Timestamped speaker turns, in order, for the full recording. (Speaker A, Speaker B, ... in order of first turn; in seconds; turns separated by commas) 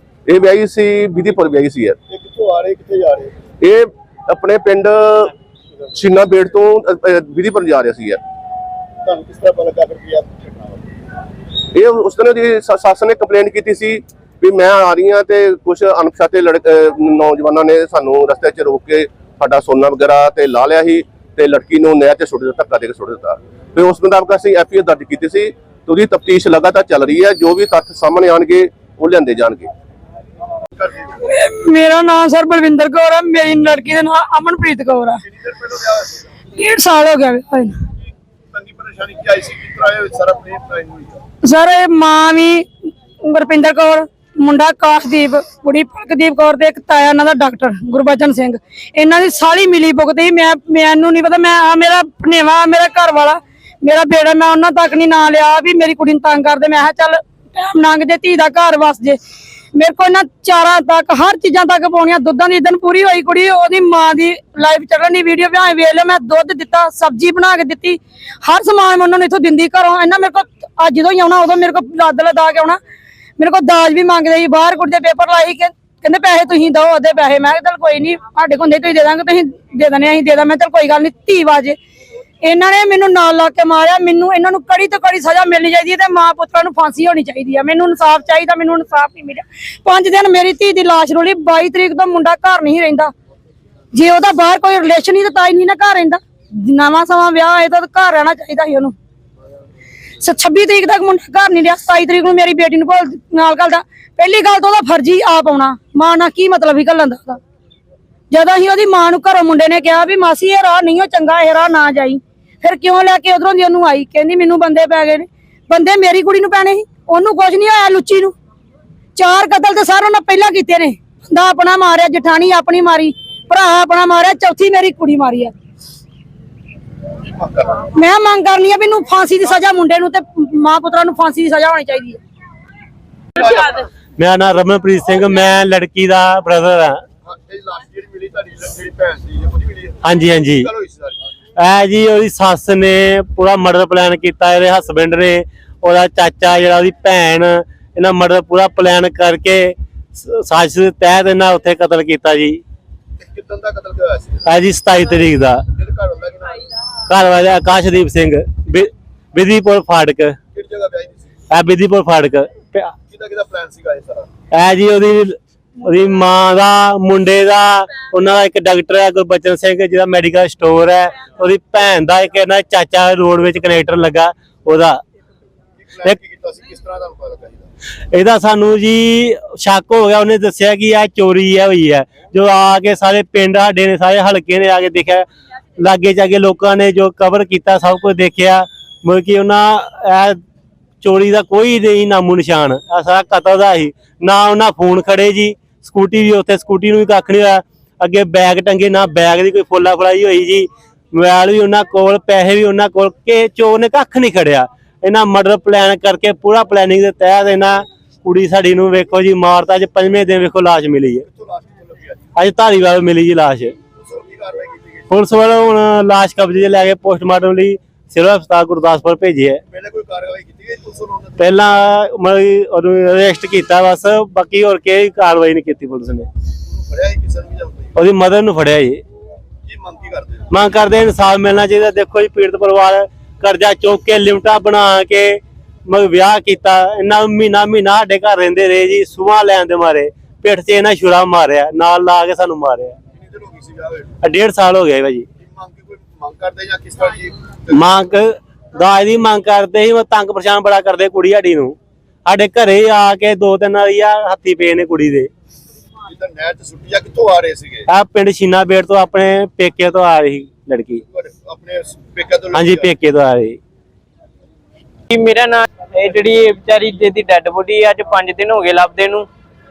Speaker A: 0.3-2.0, Speaker B: 2.1-3.4, Speaker A: 3.6-5.3, Speaker A: 5.9-8.2, Speaker B: 9.0-10.8, Speaker A: 11.7-29.7, Speaker B: 30.8-31.1, Speaker C: 31.2-35.2, Speaker B: 35.2-36.2, Speaker C: 36.5-37.8, Speaker B: 38.5-41.2, Speaker C: 41.4-42.7, Speaker C: 43.2-59.2, Speaker C: 59.7-72.8, Speaker C: 73.4-81.8, Speaker C: 82.4-93.1, Speaker C: 93.9-98.9, Speaker C: 100.2-107.4, Speaker C: 108.3-118.3, Speaker C: 119.1-125.5, Speaker B: 127.3-127.8, Speaker C: 127.9-132.2, Speaker D: 134.2-137.0, Speaker B: 137.2-140.0, Speaker D: 140.0-140.7, Speaker B: 140.6-141.2, Speaker D: 141.6-152.6, Speaker B: 153.2-154.4, Speaker D: 154.4-155.6, Speaker B: 155.7-156.6, Speaker D: 157.1-160.4, Speaker B: 160.5-161.3, Speaker D: 161.5-162.9, Speaker B: 163.1-164.3, Speaker D: 164.5-175.0, Speaker B: 175.8-177.7, Speaker D: 178.1-185.2, Speaker D: 185.8-190.4, Speaker D: 191.0-211.2, Speaker B: 211.2-212.2, Speaker D: 212.3-213.7, Speaker B: 214.0-215.1, Speaker D: 215.1-219.6, Speaker B: 219.7-221.4, Speaker D: 221.4-226.3, Speaker B: 226.7-227.9, Speaker D: 227.9-229.0, Speaker B: 229.6-230.5, Speaker D: 230.5-242.9, Speaker B: 243.1-244.2, Speaker D: 244.2-245.2, Speaker B: 245.4-247.8, Speaker D: 247.7-251.8, Speaker D: 252.2-255.3, Speaker B: 256.1-257.9, Speaker D: 257.9-261.0, Speaker B: 261.1-262.9, Speaker D: 262.5-263.6, Speaker E: 265.1-269.3